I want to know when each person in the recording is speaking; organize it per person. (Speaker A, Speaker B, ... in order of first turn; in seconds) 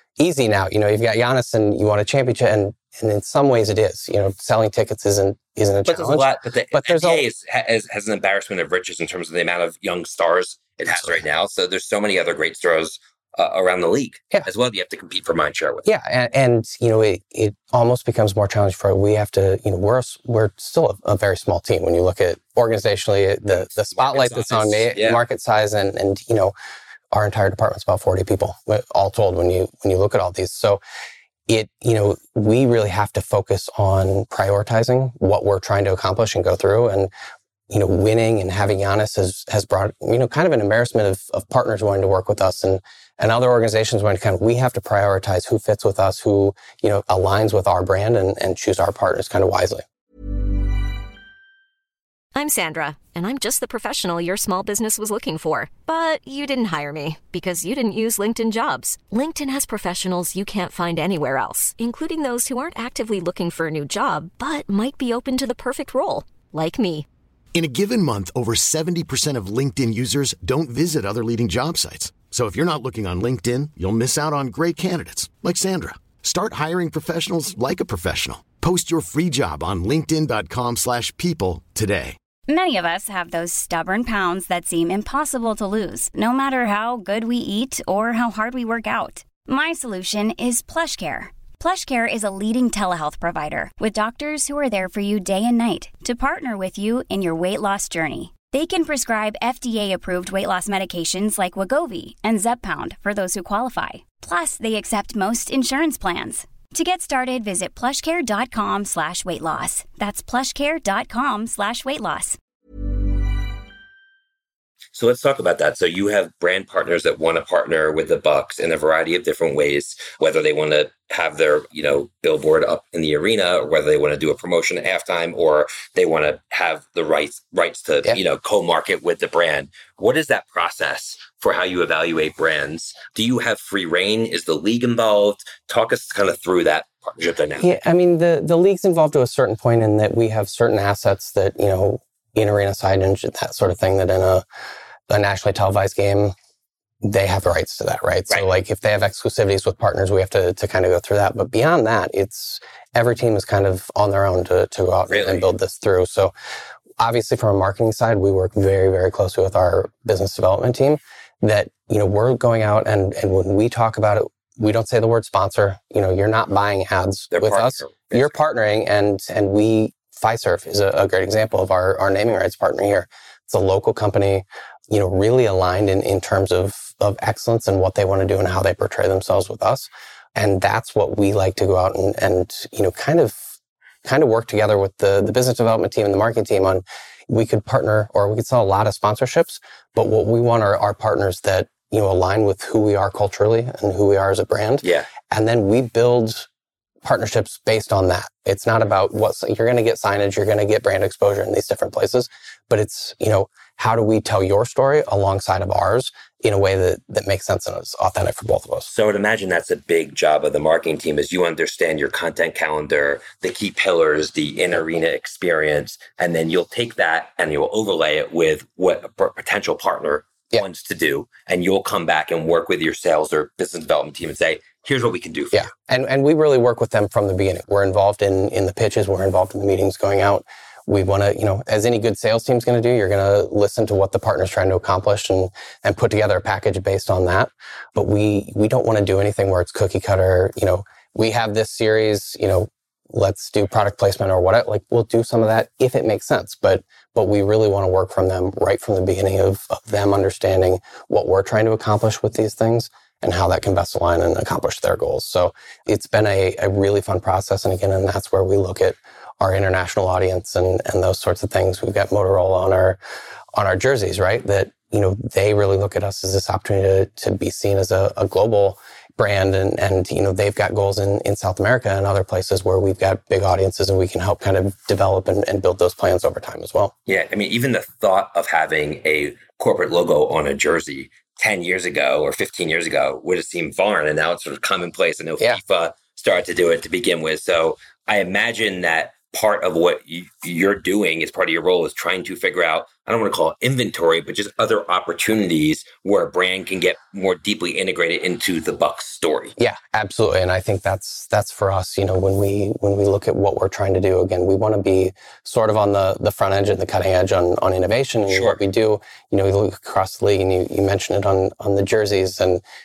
Speaker A: 0.2-7.2, 15.8-26.5, 27.1-30.8, 31.5-37.1, 37.7-49.8, 137.6-144.4, 145.1-146.3, 147.0-156.3, 157.0-183.4, 184.0-196.5, 197.0-208.9, 225.5-263.0, 263.5-276.9, 299.6-312.6
Speaker B: 5.8-15.8, 23.6-25.2, 114.9-137.7, 155.1-155.4, 167.3-168.4, 194.8-195.1, 208.9-225.7, 277.1-299.6, 308.3-308.6
Speaker C: 52.3-67.0
Speaker D: 67.5-82.2
Speaker E: 82.5-112.4